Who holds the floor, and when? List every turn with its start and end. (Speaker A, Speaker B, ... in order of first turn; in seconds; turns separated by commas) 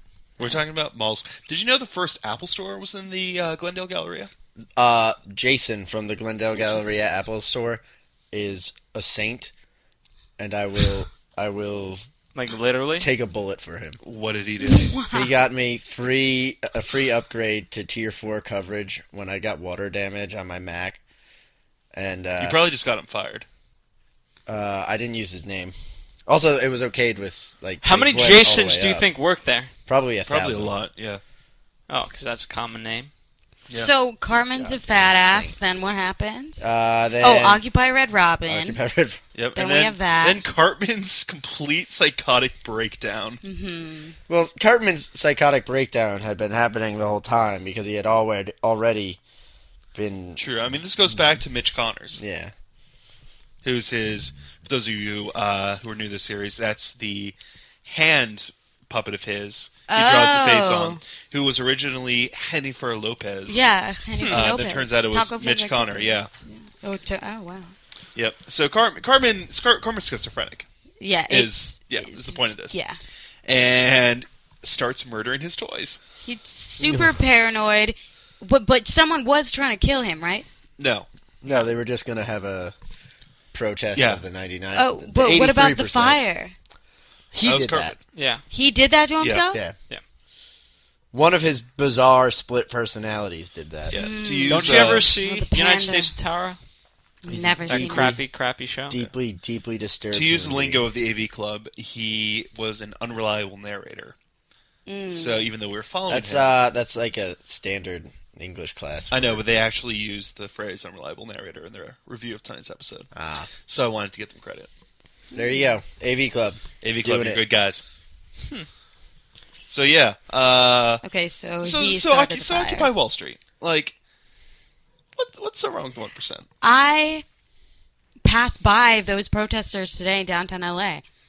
Speaker A: 0.4-4.3, Speaker B: 4.8-9.5, Speaker B: 10.4-12.0, Speaker C: 12.3-13.1, Speaker B: 13.0-14.0, Speaker A: 14.0-14.9, Speaker D: 14.6-15.3, Speaker B: 15.1-21.0, Speaker B: 21.9-22.6, Speaker A: 22.4-23.4, Speaker B: 24.5-25.7, Speaker B: 26.3-29.1, Speaker C: 27.8-29.7, Speaker B: 29.9-30.7, Speaker A: 30.2-31.2, Speaker C: 31.9-33.1, Speaker D: 33.7-36.7, Speaker B: 34.5-35.5, Speaker B: 36.6-37.6, Speaker D: 37.2-38.8, Speaker B: 38.5-39.2, Speaker A: 39.3-43.4, Speaker D: 39.5-40.4, Speaker D: 43.4-44.1, Speaker B: 44.3-49.2, Speaker B: 49.9-50.4, Speaker A: 50.4-52.2, Speaker B: 52.2-52.5, Speaker A: 53.6-63.6, Speaker D: 59.9-61.0, Speaker D: 63.5-67.7, Speaker C: 64.2-64.5, Speaker A: 64.3-66.3, Speaker A: 68.2-70.7, Speaker D: 71.0-73.0, Speaker A: 71.3-72.8, Speaker A: 73.5-76.0, Speaker D: 76.2-80.5, Speaker B: 76.8-77.2, Speaker A: 80.8-81.7, Speaker B: 81.4-82.7, Speaker B: 83.5-86.2, Speaker A: 83.9-84.2, Speaker D: 84.7-86.5, Speaker B: 87.3-87.9, Speaker A: 87.4-88.0, Speaker C: 88.1-88.4, Speaker D: 88.5-89.6, Speaker A: 89.2-89.5, Speaker B: 91.1-94.0, Speaker A: 93.9-95.1, Speaker D: 93.9-96.1, Speaker C: 94.5-96.6, Speaker D: 97.2-98.2, Speaker B: 97.3-98.2, Speaker C: 97.7-99.0, Speaker B: 98.9-100.8, Speaker A: 100.1-104.1, Speaker D: 104.8-105.5, Speaker A: 105.1-106.5, Speaker B: 106.1-109.4, Speaker A: 109.1-113.1, Speaker B: 113.1-113.5, Speaker A: 113.7-114.7, Speaker B: 115.3-117.4, Speaker D: 115.3-115.7, Speaker A: 116.8-117.8, Speaker A: 119.7-121.0, Speaker D: 121.0-122.9, Speaker A: 121.6-123.9, Speaker A: 125.2-126.5, Speaker D: 126.6-127.2, Speaker D: 128.2-131.0